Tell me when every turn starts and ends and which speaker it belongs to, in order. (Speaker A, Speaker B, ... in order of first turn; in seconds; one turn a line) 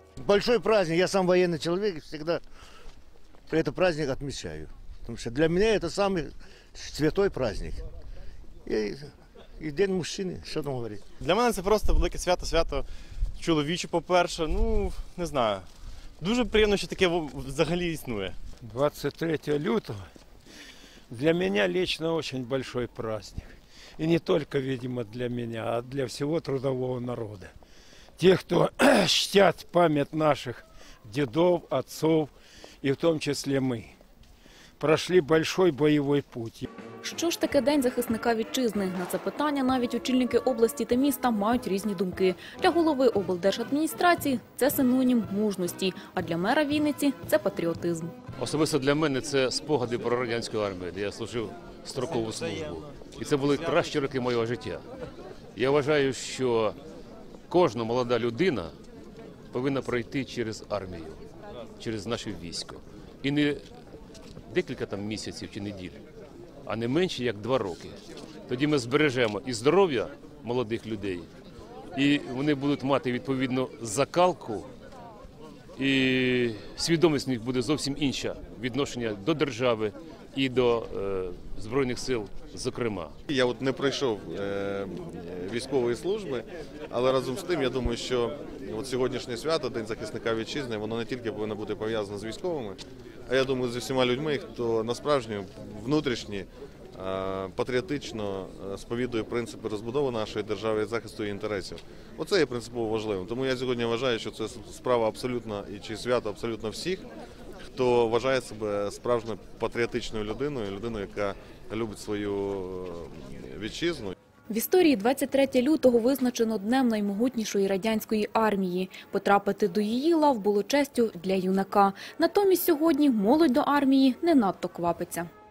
Speaker A: 0.2-2.4
Speaker A: 3.5-7.8
Speaker A: 8.7-11.1
Speaker B: 11.2-12.9
Speaker B: 13.4-15.7
Speaker B: 16.2-18.4
Speaker C: 18.6-20.1
Speaker C: 21.1-27.5
Speaker C: 28.2-33.9
Speaker C: 34.8-36.7
Speaker D: 37.0-48.1
Speaker E: 48.4-54.9
Speaker E: 55.5-56.8
Speaker E: 57.5-58.8
Speaker E: 59.5-61.2
Speaker E: 61.8-63.6
Speaker E: 64.5-66.0
Speaker E: 66.7-71.3
Speaker E: 72.0-74.7
Speaker E: 75.8-83.1
Speaker F: 83.3-107.1
Speaker F: 107.7-114.1
Speaker D: 114.5-125.3